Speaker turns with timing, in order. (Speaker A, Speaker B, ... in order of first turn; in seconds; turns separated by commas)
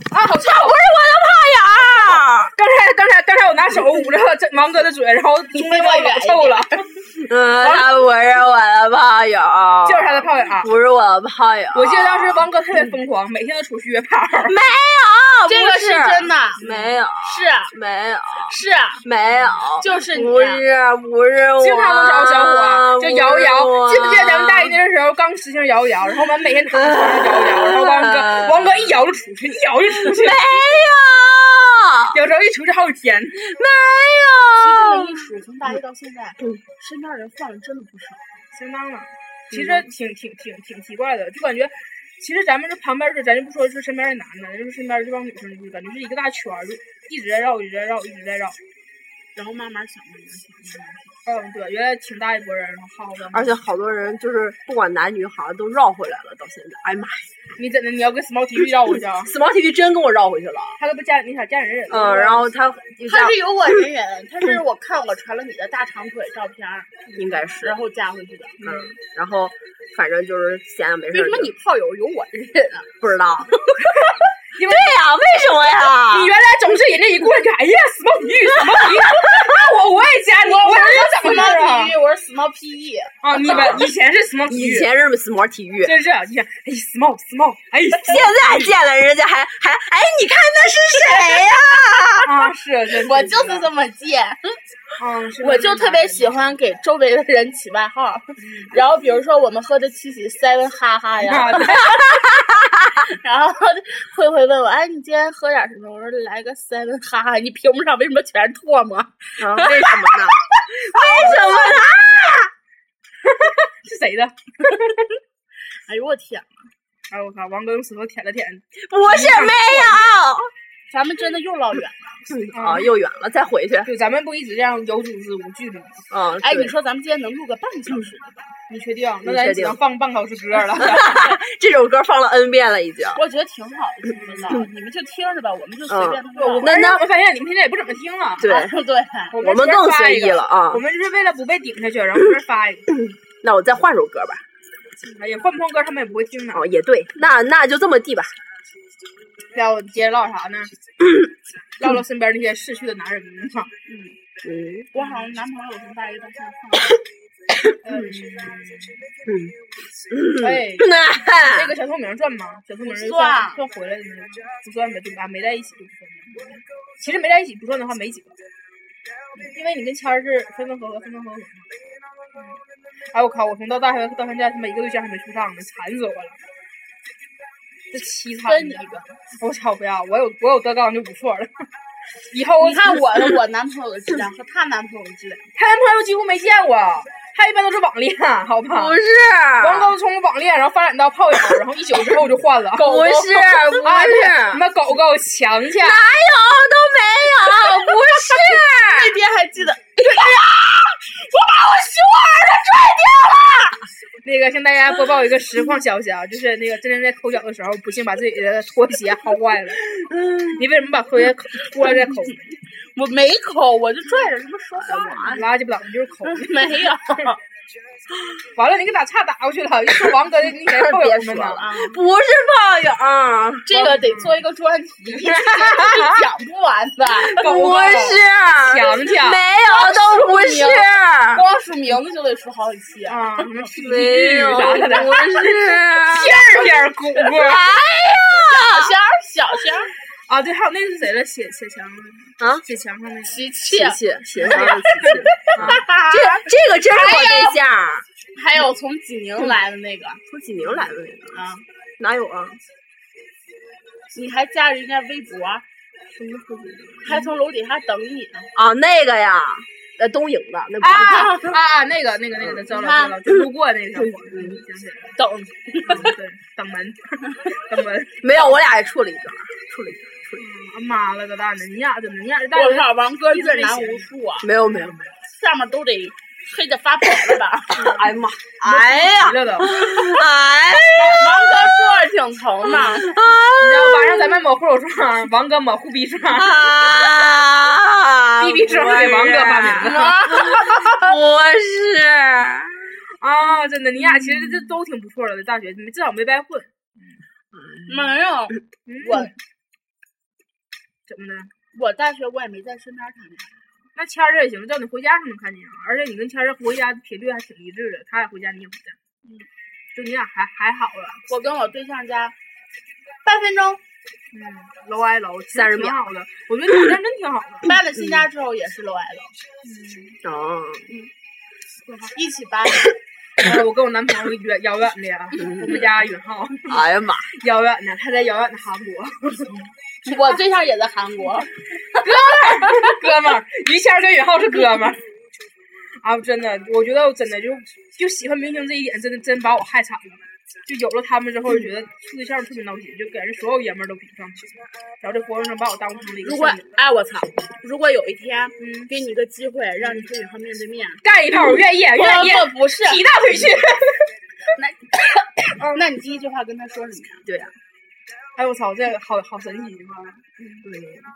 Speaker A: 0.1-0.9, Speaker B: 0.4-2.5, Speaker A: 2.5-6.9, Speaker C: 5.5-6.8, Speaker B: 7.2-12.5, Speaker C: 7.6-7.9, Speaker A: 9.9-10.7, Speaker A: 11.7-14.6, Speaker B: 14.4-24.8, Speaker C: 15.5-17.7, Speaker A: 16.6-16.9, Speaker C: 18.5-19.0, Speaker C: 19.8-20.6, Speaker A: 21.6-30.6, Speaker B: 26.7-28.9, Speaker B: 29.9-32.2, Speaker A: 32.1-33.4, Speaker B: 33.4-35.2, Speaker C: 34.6-38.3, Speaker A: 38.5-48.6, Speaker C: 49.4-51.1, Speaker A: 51.3-53.6, Speaker B: 53.3-57.3, Speaker A: 57.6-59.3, Speaker B: 59.2-60.8, Speaker A: 60.8-62.5, Speaker B: 61.9-63.7, Speaker C: 63.1-67.0, Speaker B: 67.2-67.8, Speaker C: 67.6-68.6, Speaker A: 68.6-69.0, Speaker B: 68.6-71.5, Speaker C: 71.1-72.9, Speaker B: 73.0-73.6, Speaker A: 73.9-75.0, Speaker B: 74.6-76.3, Speaker A: 76.1-82.0, Speaker B: 78.6-79.7, Speaker C: 80.4-83.8, Speaker A: 83.2-84.9, Speaker B: 83.3-83.9, Speaker B: 84.5-86.0, Speaker A: 85.8-88.8, Speaker B: 88.0-92.5, Speaker A: 92.2-93.7, Speaker C: 93.0-94.6, Speaker A: 95.0-96.4, Speaker C: 95.4-102.1, Speaker A: 98.4-98.8, Speaker A: 101.2-102.0, Speaker B: 101.8-103.1, Speaker C: 103.0-111.6, Speaker B: 109.4-112.5, Speaker A: 111.1-111.8, Speaker A: 113.2-115.1, Speaker C: 115.9-116.7, Speaker A: 117.1-120.1, Speaker B: 118.8-120.5, Speaker C: 120.9-122.0, Speaker B: 122.3-123.9, Speaker A: 122.5-122.9, Speaker A: 123.8-126.0, Speaker B: 126.1-126.7, Speaker C: 126.4-128.4, Speaker A: 128.7-131.3, Speaker B: 129.2-129.8, Speaker B: 130.8-133.2, Speaker C: 133.2-136.7, Speaker A: 134.2-134.6, Speaker B: 135.9-137.0, Speaker A: 136.4-138.5, Speaker B: 138.4-138.7, Speaker C: 138.4-139.4, Speaker A: 139.3-142.9, Speaker B: 139.4-140.8, Speaker B: 143.1-144.4, Speaker A: 145.0-146.7, Speaker B: 146.5-148.3, Speaker A: 149.5-150.7, Speaker A: 151.8-153.7, Speaker C: 153.9-154.2, Speaker B: 154.4-154.9, Speaker C: 154.9-157.0, Speaker A: 155.0-155.3, Speaker B: 157.6-158.1, Speaker A: 157.8-159.0, Speaker B: 159.2-159.6, Speaker B: 160.1-161.8, Speaker A: 160.4-168.4, Speaker C: 162.8-163.6, Speaker A: 169.4-171.7, Speaker A: 173.1-176.4, Speaker A: 177.9-181.7, Speaker C: 178.5-179.1, Speaker A: 182.3-183.1, Speaker C: 182.6-185.5, Speaker A: 185.6-189.0, Speaker B: 188.7-189.9, Speaker A: 189.6-193.0, Speaker C: 192.8-193.6, Speaker B: 192.8-194.6, Speaker A: 193.8-196.0, Speaker B: 195.8-199.2, Speaker C: 197.4-203.8, Speaker B: 200.0-200.4, Speaker A: 204.2-209.8, Speaker B: 209.9-210.7, Speaker A: 210.5-212.5, Speaker C: 212.9-215.5, Speaker B: 214.9-215.4, Speaker A: 215.2-217.3, Speaker C: 216.2-217.4, Speaker A: 218.6-221.8, Speaker B: 220.7-223.7, Speaker C: 221.2-222.0, Speaker C: 223.7-227.9, Speaker A: 223.7-224.4, Speaker A: 225.1-226.2, Speaker B: 227.2-231.4, Speaker A: 227.3-229.4, Speaker C: 229.7-233.5, Speaker A: 233.1-235.6, Speaker B: 233.7-236.4, Speaker C: 234.6-235.5, Speaker A: 236.1-237.7, Speaker C: 236.1-236.9, Speaker B: 237.2-238.9, Speaker C: 238.4-239.9, Speaker A: 240.3-243.4, Speaker C: 243.2-247.6, Speaker B: 243.7-248.1, Speaker A: 244.4-245.8, Speaker C: 248.3-250.2, Speaker B: 250.3-251.4, Speaker C: 251.3-251.6, Speaker B: 252.0-252.6, Speaker C: 254.1-255.6, Speaker A: 256.3-257.1, Speaker C: 257.0-258.5, Speaker B: 258.6-261.4, Speaker A: 260.8-265.1, Speaker C: 260.9-261.6, Speaker C: 262.7-263.2, Speaker B: 264.0-264.6, Speaker C: 265.2-266.1, Speaker A: 265.8-268.3, Speaker B: 268.2-270.4, Speaker A: 270.4-274.1, Speaker C: 272.6-274.5, Speaker B: 274.4-275.1, Speaker C: 275.4-278.0, Speaker A: 277.8-279.9, Speaker B: 277.9-282.0, Speaker C: 280.9-283.1, Speaker B: 282.7-284.4, Speaker A: 283.6-286.7, Speaker B: 286.4-293.0, Speaker A: 288.4-290.2, Speaker C: 289.8-291.2, Speaker A: 293.2-296.7, Speaker B: 294.0-294.7, Speaker B: 297.5-298.1, Speaker C: 297.9-299.3, Speaker A: 298.9-299.3, Speaker A: 301.1-301.5, Speaker C: 301.7-303.6, Speaker A: 304.0-309.0, Speaker A: 309.9-311.2, Speaker C: 311.3-312.4, Speaker C: 313.2-313.8, Speaker A: 314.3-317.7, Speaker B: 315.5-316.0, Speaker C: 317.6-319.3, Speaker B: 318.0-318.2, Speaker A: 319.6-320.2, Speaker B: 320.2-320.9, Speaker A: 321.9-322.1, Speaker C: 322.1-322.9, Speaker A: 323.4-326.8, Speaker B: 325.4-325.9, Speaker B: 326.7-327.3, Speaker A: 327.4-329.7, Speaker C: 330.1-333.0, Speaker A: 331.9-335.0, Speaker A: 336.0-346.7, Speaker C: 346.2-353.0, Speaker A: 348.6-348.9, Speaker A: 351.0-354.1, Speaker C: 354.6-357.2, Speaker A: 355.6-355.9, Speaker B: 357.3-357.6, Speaker A: 358.4-360.3, Speaker B: 360.6-361.1